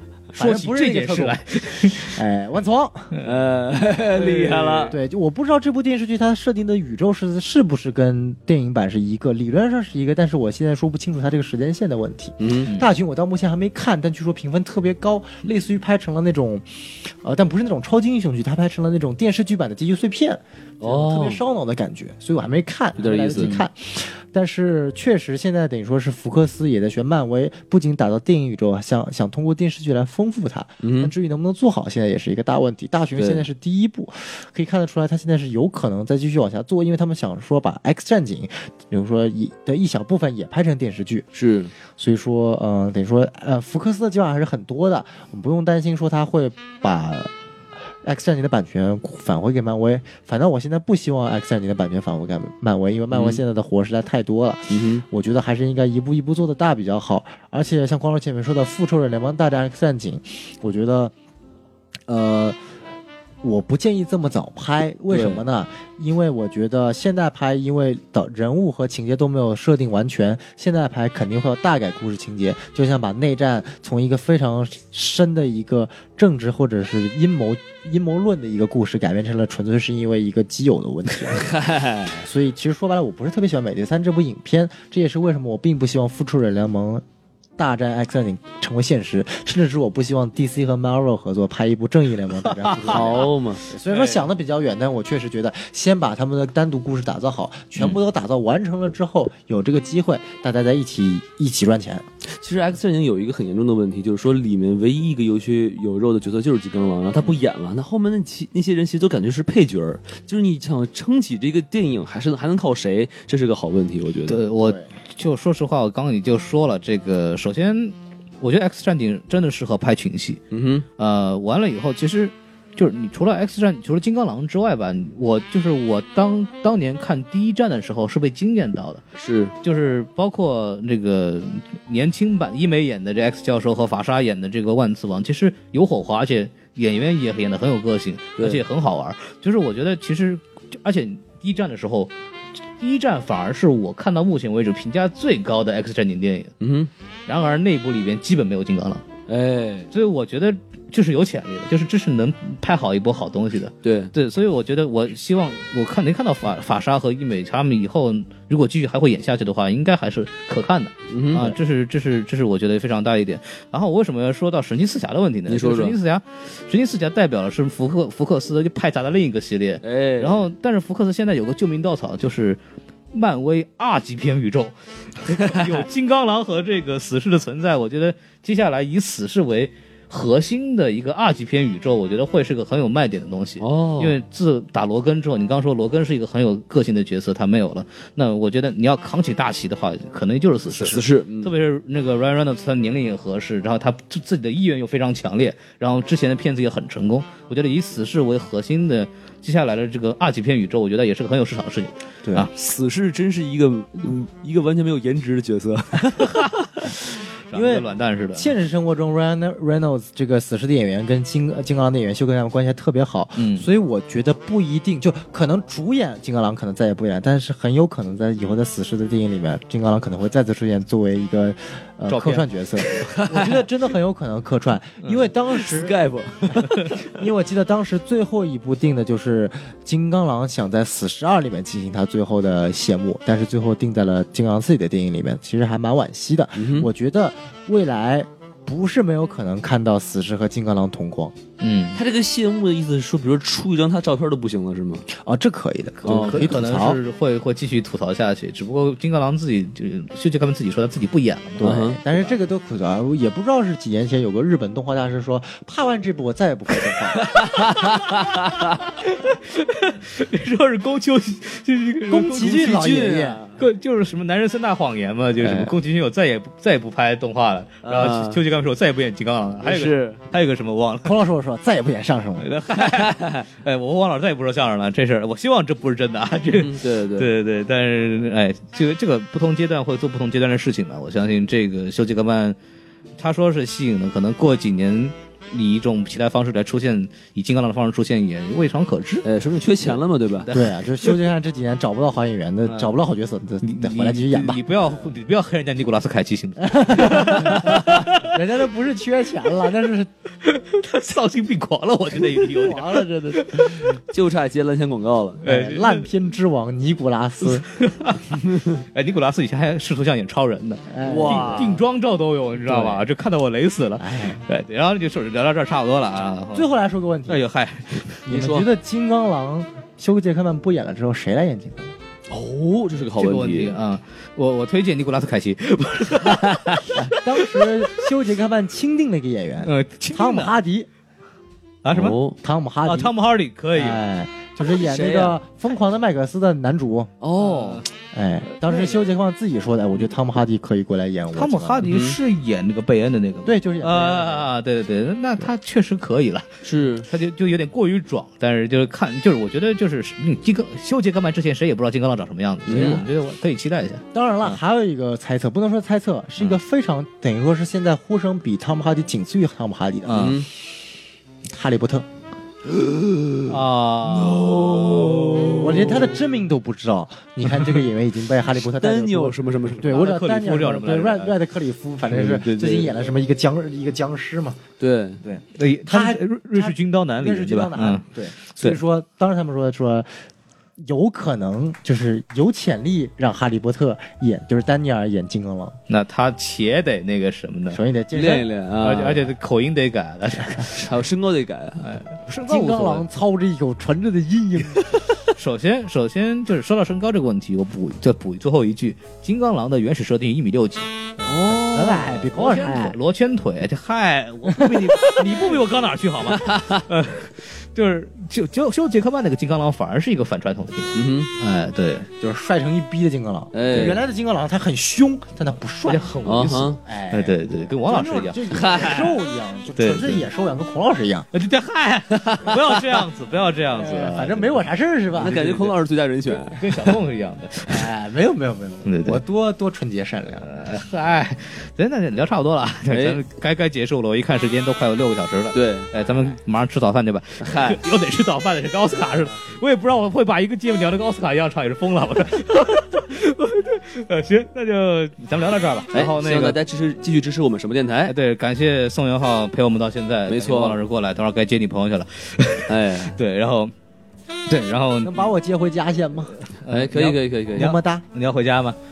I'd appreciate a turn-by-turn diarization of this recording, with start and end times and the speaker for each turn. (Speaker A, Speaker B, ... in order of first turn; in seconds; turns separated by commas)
Speaker A: 0.3-3.1, Speaker B: 0.4-2.2, Speaker C: 3.2-5.0, Speaker B: 4.2-4.9, Speaker A: 4.9-41.3, Speaker C: 12.4-12.7, Speaker C: 20.8-21.4, Speaker C: 23.0-23.6, Speaker C: 30.8-31.1, Speaker C: 33.2-33.5, Speaker C: 41.4-41.7, Speaker A: 42.0-47.3, Speaker A: 48.0-61.1, Speaker C: 53.1-53.4, Speaker C: 54.7-55.0, Speaker A: 62.1-62.6, Speaker A: 63.4-87.0, Speaker C: 65.1-65.4, Speaker C: 81.4-82.2, Speaker A: 87.6-102.0, Speaker B: 92.5-93.3, Speaker C: 92.8-93.6, Speaker B: 93.9-94.2, Speaker C: 102.4-114.4, Speaker B: 114.3-120.4, Speaker A: 114.6-114.9, Speaker C: 120.5-120.8, Speaker B: 121.0-129.0, Speaker C: 129.2-129.5, Speaker B: 129.6-142.1, Speaker B: 142.8-146.5, Speaker C: 146.6-146.9, Speaker B: 147.3-149.0, Speaker C: 149.3-149.9, Speaker B: 149.9-172.6, Speaker C: 153.8-154.1, Speaker C: 161.1-161.6, Speaker C: 165.5-165.9, Speaker C: 169.8-170.4, Speaker B: 173.1-202.5, Speaker C: 183.6-184.2, Speaker C: 190.7-191.5, Speaker C: 202.5-206.8, Speaker B: 207.5-208.5, Speaker A: 207.5-225.9, Speaker B: 213.4-213.7, Speaker B: 222.1-222.5, Speaker C: 222.9-223.6, Speaker C: 225.6-227.0, Speaker A: 227.0-241.3, Speaker C: 236.6-236.9, Speaker B: 241.6-242.0, Speaker C: 241.9-245.1, Speaker A: 245.1-247.0, Speaker C: 246.1-246.5, Speaker B: 246.1-252.3, Speaker A: 251.6-257.3, Speaker C: 251.6-252.0, Speaker C: 257.4-258.3, Speaker B: 258.7-262.8, Speaker A: 262.1-263.4, Speaker C: 262.4-263.6, Speaker B: 263.6-271.2, Speaker C: 265.4-265.7, Speaker C: 267.8-268.4, Speaker C: 269.6-270.2, Speaker A: 271.0-272.5, Speaker B: 272.4-282.6, Speaker C: 272.8-273.4, Speaker C: 276.5-277.3, Speaker B: 283.2-289.3, Speaker C: 289.2-290.5, Speaker B: 290.4-290.7, Speaker A: 290.5-294.6, Speaker B: 292.7-292.9, Speaker B: 293.6-298.3, Speaker A: 296.6-300.1, Speaker B: 300.4-303.8, Speaker A: 302.3-304.0, Speaker C: 304.1-305.4, Speaker A: 305.4-307.7, Speaker B: 305.4-306.1, Speaker B: 307.6-316.7, Speaker A: 310.9-311.8, Speaker C: 311.0-311.8, Speaker C: 312.7-313.1, Speaker A: 314.0-314.4, Speaker A: 316.5-317.4, Speaker B: 317.3-318.2, Speaker A: 318.3-321.9, Speaker C: 318.3-318.7, Speaker C: 322.3-323.8, Speaker B: 323.2-326.9, Speaker A: 326.9-330.9, Speaker B: 329.6-330.6, Speaker B: 331.8-332.2, Speaker C: 331.9-332.4, Speaker A: 332.4-333.1, Speaker B: 332.9-334.0, Speaker A: 333.8-337.1, Speaker C: 334.8-335.4, Speaker C: 337.2-337.8, Speaker B: 337.4-337.9, Speaker A: 338.1-341.9, Speaker B: 341.3-354.5, Speaker C: 341.9-342.2, Speaker A: 343.4-344.5, Speaker C: 346.6-347.1, Speaker C: 352.7-353.0, Speaker A: 354.1-360.4, Speaker B: 360.1-360.4, Speaker C: 360.2-360.5, Speaker A: 361.5-362.1, Speaker B: 363.5-365.6, Speaker C: 364.3-365.7, Speaker A: 365.6-374.6, Speaker C: 368.6-370.0, Speaker B: 369.9-371.4, Speaker C: 372.1-372.9, Speaker C: 374.8-375.2, Speaker A: 375.2-380.2, Speaker B: 375.6-378.8, Speaker A: 380.8-385.8, Speaker B: 385.9-387.8, Speaker A: 387.7-388.5, Speaker C: 388.1-389.2, Speaker B: 388.8-390.8, Speaker C: 390.7-391.9, Speaker B: 391.8-393.0, Speaker A: 392.5-395.0, Speaker B: 395.4-400.9, Speaker A: 401.2-403.0, Speaker C: 401.3-402.1, Speaker B: 402.1-412.1, Speaker C: 406.4-406.8, Speaker C: 410.9-411.3, Speaker A: 412.2-416.1, Speaker C: 413.5-414.0, Speaker B: 415.9-418.9, Speaker C: 416.2-416.8, Speaker A: 416.9-421.3, Speaker C: 418.5-419.1, Speaker B: 419.8-420.2, Speaker B: 421.3-424.5, Speaker C: 422.3-422.6, Speaker A: 423.8-425.4, Speaker C: 425.2-426.9, Speaker B: 425.2-425.7, Speaker B: 426.3-427.8, Speaker A: 427.7-430.5, Speaker B: 428.9-429.2, Speaker B: 430.4-446.6, Speaker C: 432.9-433.2, Speaker C: 435.5-435.9, Speaker C: 437.4-437.8, Speaker C: 445.9-448.1, Speaker B: 448.1-453.7, Speaker C: 450.3-450.8, Speaker C: 452.7-453.1, Speaker B: 454.5-455.1, Speaker A: 455.0-456.4, Speaker B: 456.6-458.8, Speaker C: 456.7-457.8, Speaker A: 457.6-458.1